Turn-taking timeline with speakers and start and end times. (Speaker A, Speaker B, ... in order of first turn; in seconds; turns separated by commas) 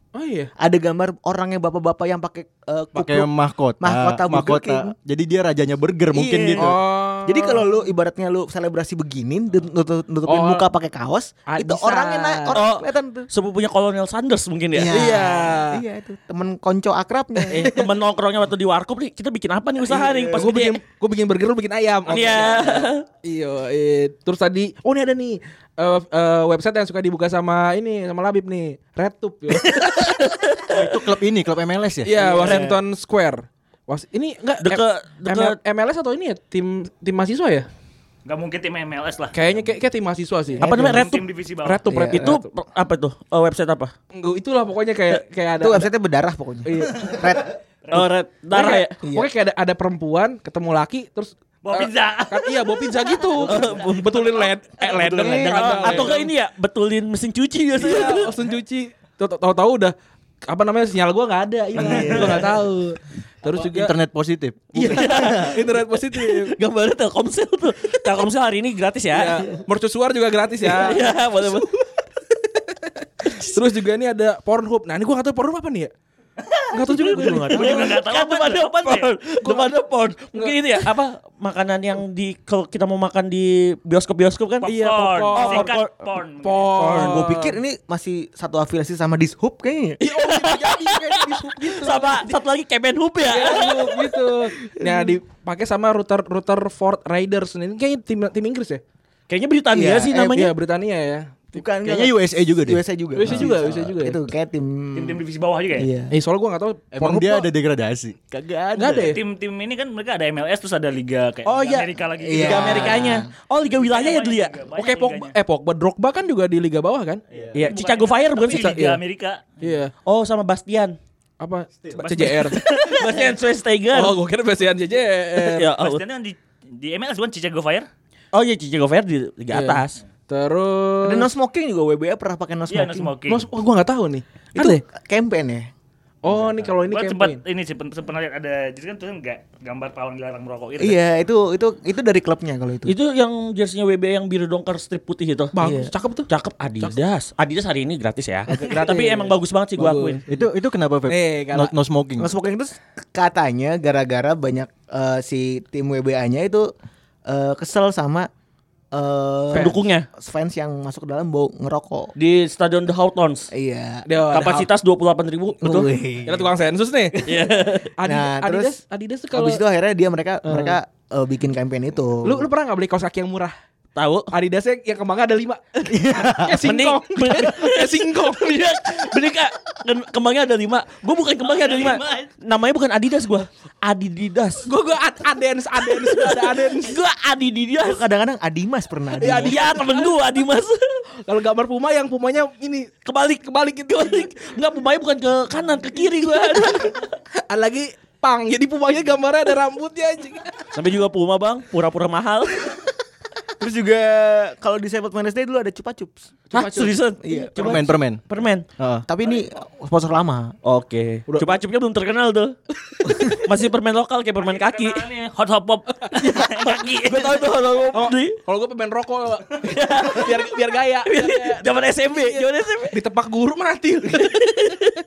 Speaker A: 0.1-0.5, Speaker B: 0.6-4.9, Speaker C: 3.0-6.8, Speaker B: 6.1-13.3, Speaker A: 6.6-7.7, Speaker A: 10.3-10.7, Speaker A: 11.5-12.5, Speaker D: 12.5-15.0, Speaker B: 14.8-17.8, Speaker A: 14.9-15.8, Speaker A: 17.5-17.8, Speaker D: 17.5-20.8, Speaker A: 19.9-30.1, Speaker D: 22.1-23.1, Speaker D: 29.6-30.7, Speaker C: 30.7-32.1, Speaker A: 32.0-37.7, Speaker B: 32.1-32.8, Speaker D: 34.6-35.6, Speaker E: 38.2-39.4, Speaker A: 39.3-41.1, Speaker D: 40.6-41.2, Speaker E: 41.0-41.8, Speaker A: 41.6-42.4, Speaker B: 41.9-42.4, Speaker D: 42.1-43.9, Speaker A: 44.1-45.9, Speaker B: 45.6-47.6, Speaker A: 46.6-47.2, Speaker D: 47.9-49.0, Speaker A: 47.9-56.3, Speaker B: 49.0-49.3, Speaker E: 51.6-53.3, Speaker D: 53.4-54.2, Speaker B: 54.9-56.1, Speaker D: 55.3-58.3, Speaker A: 57.8-60.0, Speaker A: 60.5-63.9, Speaker B: 61.8-62.6, Speaker C: 63.5-65.5, Speaker A: 64.7-66.5, Speaker D: 64.8-65.5, Speaker D: 66.1-69.6, Speaker A: 69.1-75.9, Speaker D: 70.7-71.7, Speaker A: 76.7-77.8, Speaker B: 76.9-78.0, Speaker D: 77.0-84.7, Speaker E: 77.5-79.1, Speaker A: 79.4-79.7, Speaker E: 84.6-87.1, Speaker A: 84.6-85.7, Speaker D: 85.3-86.1, Speaker A: 86.4-87.6, Speaker D: 86.8-87.2, Speaker B: 86.9-90.0, Speaker A: 90.0-92.3, Speaker D: 90.2-94.0, Speaker A: 93.2-98.8, Speaker B: 94.8-95.1, Speaker D: 99.3-100.5, Speaker B: 99.7-100.5, Speaker A: 100.3-101.5, Speaker B: 101.5-105.2, Speaker C: 101.8-103.5, Speaker A: 103.2-104.2, Speaker E: 104.9-105.9, Speaker B: 105.8-106.1, Speaker A: 106.1-107.5, Speaker C: 107.0-109.1, Speaker A: 108.7-109.2, Speaker E: 109.0-113.1, Speaker A: 111.5-111.9, Speaker B: 112.2-113.3, Speaker D: 112.4-114.6, Speaker E: 113.7-115.4, Speaker A: 114.7-117.2, Speaker D: 117.5-119.0, Speaker E: 117.6-119.5, Speaker A: 118.5-119.0, Speaker A: 119.6-119.9, Speaker D: 120.0-121.0, Speaker A: 121.4-123.2, Speaker E: 122.0-122.7, Speaker D: 122.5-124.2, Speaker A: 123.9-125.7, Speaker D: 125.4-126.0, Speaker E: 125.8-127.9, Speaker D: 128.3-130.0, Speaker A: 129.5-131.3, Speaker B: 131.0-133.2, Speaker E: 132.7-133.5, Speaker A: 133.3-134.8, Speaker B: 134.6-135.7, Speaker A: 136.2-137.4, Speaker E: 136.8-141.0, Speaker B: 140.8-142.9, Speaker D: 142.9-145.5, Speaker A: 145.6-146.3, Speaker B: 145.6-145.9, Speaker D: 146.3-150.2, Speaker A: 148.5-150.4, Speaker C: 150.3-152.3, Speaker A: 151.1-151.7, Speaker B: 152.2-156.7, Speaker B: 157.3-158.3, Speaker B: 158.9-162.1, Speaker D: 159.5-160.1, Speaker D: 162.2-163.5, Speaker B: 163.5-164.1, Speaker A: 164.1-164.7, Speaker D: 164.3-165.9, Speaker B: 165.6-166.5, Speaker A: 166.2-167.4, Speaker D: 167.2-167.9, Speaker A: 168.0-169.6, Speaker B: 168.0-168.8, Speaker B: 169.3-172.5, Speaker A: 170.4-170.8, Speaker A: 172.2-173.6, Speaker D: 174.0-174.3, Speaker A: 174.3-178.6, Speaker C: 175.9-176.6, Speaker D: 176.6-184.7, Speaker A: 184.7-187.0, Speaker D: 186.0-188.0, Speaker B: 187.8-189.6, Speaker A: 189.2-190.1, Speaker D: 189.3-190.8, Speaker A: 191.3-192.9, Speaker D: 193.1-197.1, Speaker A: 193.5-194.4, Speaker A: 197.5-200.6, Speaker D: 200.7-202.7, Speaker B: 203.6-206.7, Speaker D: 206.5-208.7, Speaker A: 206.6-206.9, Speaker B: 207.2-207.9, Speaker C: 207.6-208.2, Speaker C: 208.8-209.1, Speaker B: 209.1-210.6, Speaker D: 210.6-212.6, Speaker D: 213.2-215.0, Speaker E: 214.4-217.4, Speaker D: 216.2-218.4, Speaker A: 217.9-224.5, Speaker D: 219.6-223.0, Speaker D: 224.1-224.9